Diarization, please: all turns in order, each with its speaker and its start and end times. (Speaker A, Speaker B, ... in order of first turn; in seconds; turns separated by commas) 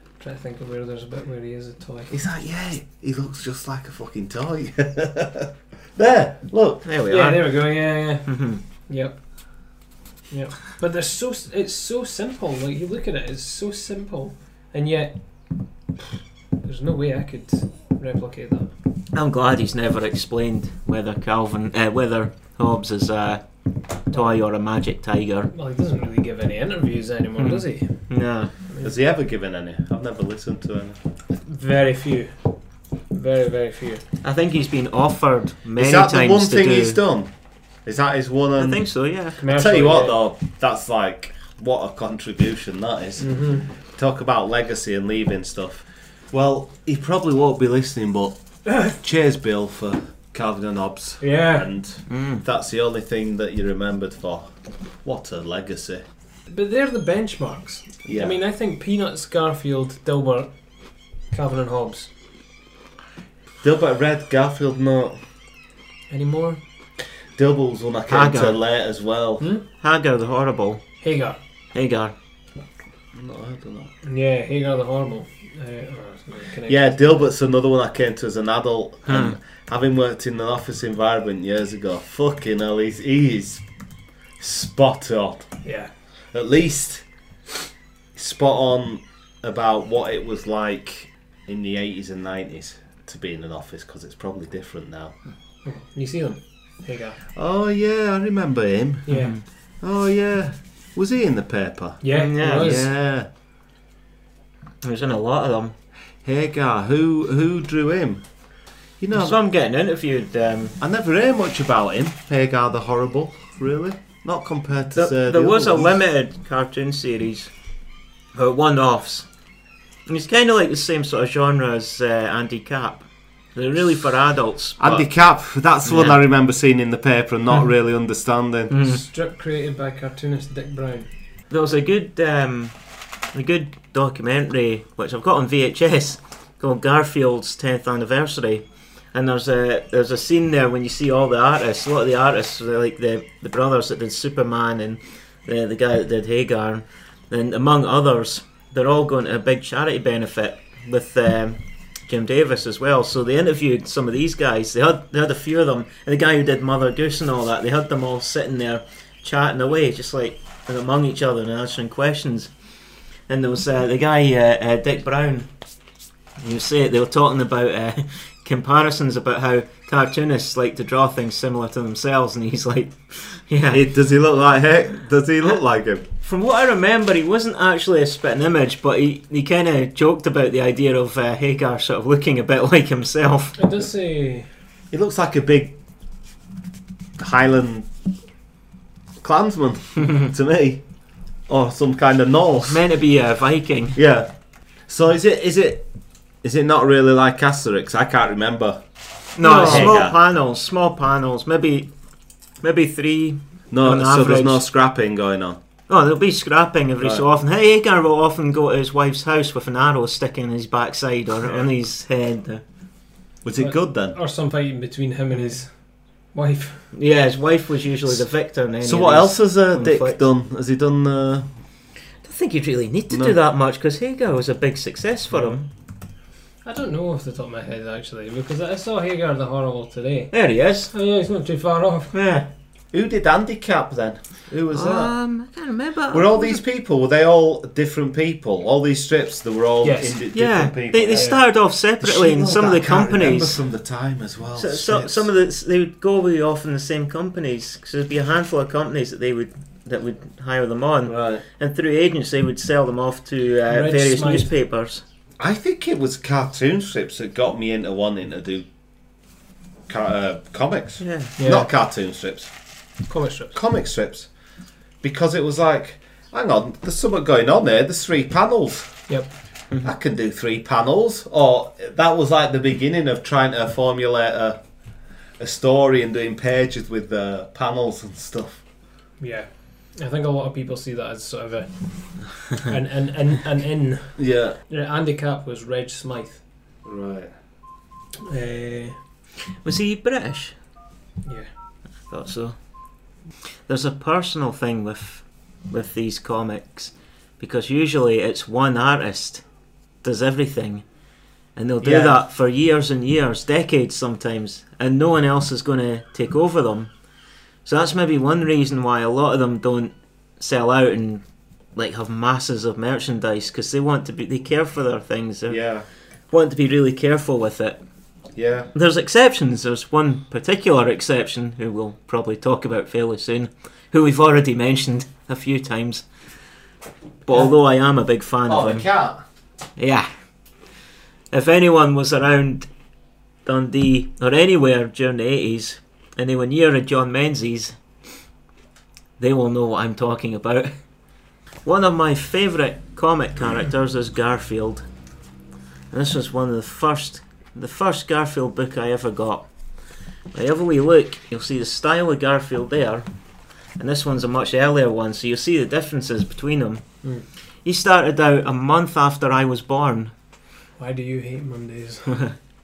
Speaker A: 0.2-2.2, Speaker B: 2.1-6.8, Speaker C: 6.8-7.6, Speaker A: 7.1-8.3, Speaker C: 8.3-8.6, Speaker A: 8.9-9.2, Speaker A: 10.3-15.2, Speaker A: 16.6-18.7, Speaker C: 19.1-23.4, Speaker C: 24.1-25.5, Speaker A: 24.1-24.4, Speaker A: 25.5-28.0, Speaker C: 27.4-28.5, Speaker B: 28.8-31.0, Speaker A: 31.4-32.3, Speaker A: 33.1-34.0, Speaker C: 34.2-37.0, Speaker B: 35.8-37.3, Speaker B: 37.9-38.8, Speaker C: 38.6-39.4, Speaker A: 39.4-40.2, Speaker B: 39.4-54.5, Speaker A: 43.2-43.7, Speaker A: 48.7-48.9, Speaker A: 51.2-51.7, Speaker C: 52.1-52.4, Speaker B: 55.0-56.0, Speaker A: 56.5-60.5, Speaker B: 58.0-58.4, Speaker A: 61.3-62.1, Speaker B: 63.6-65.2, Speaker A: 66.1-66.6, Speaker B: 67.4-69.5, Speaker C: 68.1-68.6, Speaker A: 69.4-69.7, Speaker C: 69.8-70.8, Speaker A: 71.0-71.4, Speaker C: 71.7-72.1, Speaker B: 73.1-73.9, Speaker A: 74.0-77.3, Speaker B: 76.7-83.6, Speaker C: 79.1-79.4, Speaker B: 84.4-85.5, Speaker A: 85.6-85.9, Speaker B: 86.3-87.0, Speaker B: 88.2-95.2, Speaker A: 95.7-97.2, Speaker B: 97.3-99.1, Speaker A: 99.1-99.3, Speaker C: 99.1-99.4, Speaker B: 99.8-103.3, Speaker A: 102.0-102.9, Speaker C: 102.1-102.8, Speaker C: 104.8-105.8, Speaker B: 106.2-108.2, Speaker B: 109.0-109.4, Speaker C: 109.1-110.8, Speaker B: 110.8-116.0, Speaker C: 115.0-117.5, Speaker C: 118.3-119.3, Speaker C: 120.1-125.0, Speaker B: 124.8-128.8, Speaker C: 125.8-126.2, Speaker C: 128.7-129.0, Speaker A: 128.8-131.1, Speaker C: 131.5-132.7, Speaker C: 133.3-138.6, Speaker C: 139.1-162.5, Speaker C: 163.3-165.5, Speaker C: 166.4-173.8, Speaker B: 173.7-176.1, Speaker C: 176.2-183.6, Speaker A: 183.6-184.5, Speaker B: 184.9-185.8, Speaker B: 187.2-187.9, Speaker B: 189.2-190.8, Speaker B: 191.5-192.8, Speaker C: 192.6-194.0, Speaker B: 193.9-194.3, Speaker B: 194.9-195.9, Speaker B: 196.4-198.8, Speaker C: 199.4-201.9, Speaker A: 199.4-200.0, Speaker B: 199.4-200.2, Speaker C: 202.6-204.6, Speaker B: 203.7-205.6, Speaker C: 205.9-212.6, Speaker B: 213.4-214.2, Speaker A: 213.6-215.7, Speaker A: 216.3-216.9, Speaker C: 216.9-220.2, Speaker B: 218.8-221.5, Speaker C: 222.2-225.7, Speaker B: 223.1-223.4, Speaker A: 226.7-230.3, Speaker C: 230.3-230.9, Speaker A: 230.9-232.1, Speaker C: 232.1-232.5, Speaker B: 232.9-235.1, Speaker C: 234.7-236.6, Speaker B: 236.1-241.4, Speaker A: 239.8-240.2, Speaker C: 240.3-243.6, Speaker A: 241.1-241.4, Speaker B: 242.0-245.3, Speaker C: 244.6-255.0, Speaker B: 251.1-251.4, Speaker A: 253.7-254.5, Speaker B: 255.4-258.7, Speaker B: 259.9-262.5, Speaker C: 261.0-261.4, Speaker A: 261.4-261.7, Speaker A: 263.1-263.6, Speaker B: 263.5-264.3, Speaker B: 265.0-269.0, Speaker B: 269.8-274.6, Speaker B: 275.4-278.6, Speaker A: 279.2-286.4, Speaker B: 284.2-284.6, Speaker B: 286.9-287.3, Speaker A: 288.2-289.0, Speaker C: 289.6-290.6, Speaker C: 292.1-292.6, Speaker C: 293.7-299.4, Speaker C: 300.0-300.9, Speaker C: 301.6-306.9, Speaker B: 301.8-302.2, Speaker C: 307.6-311.2, Speaker C: 311.8-315.6, Speaker B: 315.5-315.9, Speaker C: 316.3-317.8, Speaker B: 318.4-318.7, Speaker C: 318.8-326.1, Speaker C: 327.3-328.9, Speaker B: 328.5-329.2, Speaker C: 329.8-330.1, Speaker C: 331.3-332.7, Speaker C: 333.4-337.8, Speaker C: 339.2-340.7, Speaker C: 341.6-344.9, Speaker C: 345.9-349.5, Speaker C: 350.3-353.1, Speaker C: 353.8-356.8, Speaker C: 357.6-360.1, Speaker A: 360.8-362.2